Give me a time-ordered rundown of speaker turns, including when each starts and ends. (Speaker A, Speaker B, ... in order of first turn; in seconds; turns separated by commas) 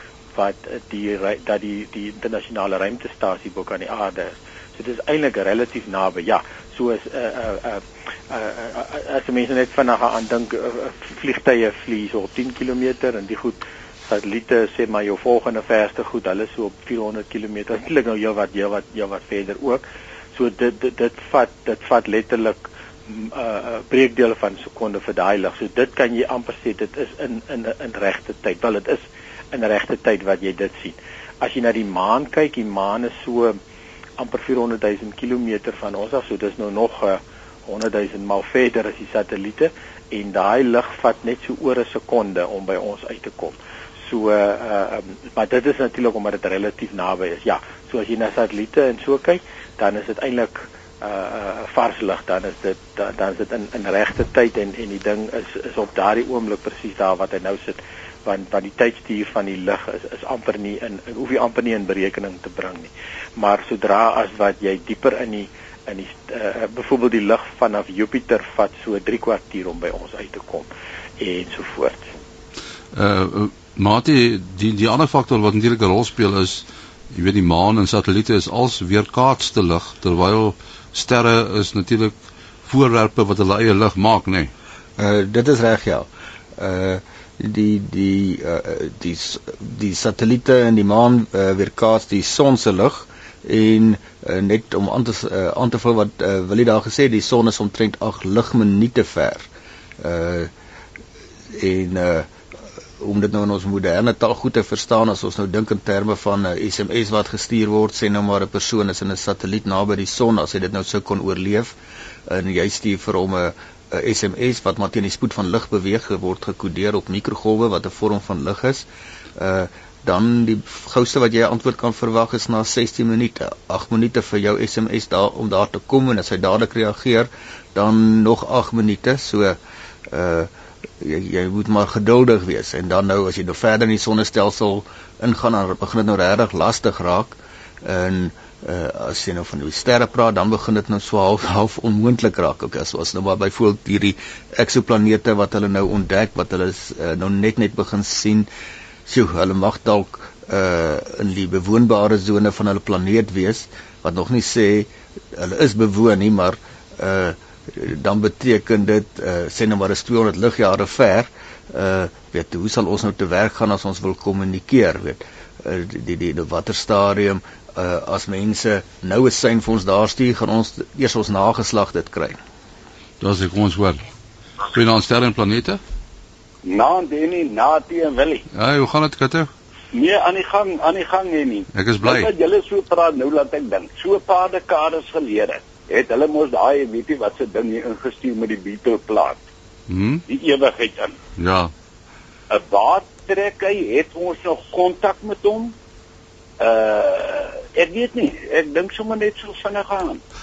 Speaker A: 0.3-33.6, Speaker A: 34.2-70.7, Speaker A: 71.2-72.0, Speaker B: 72.9-82.1, Speaker B: 82.7-84.5, Speaker C: 85.0-99.5, Speaker C: 100.0-100.5, Speaker C: 101.5-102.3, Speaker C: 103.0-111.8, Speaker C: 112.3-129.6, Speaker C: 130.1-148.5, Speaker C: 149.1-172.4, Speaker B: 173.2-174.0, Speaker B: 174.7-175.8, Speaker D: 176.6-178.4, Speaker B: 178.5-179.5, Speaker D: 179.9-189.4, Speaker B: 181.7-182.3, Speaker B: 189.9-190.2, Speaker D: 190.3-191.2, Speaker B: 191.4-191.7, Speaker D: 192.5-195.7, Speaker D: 196.6-200.2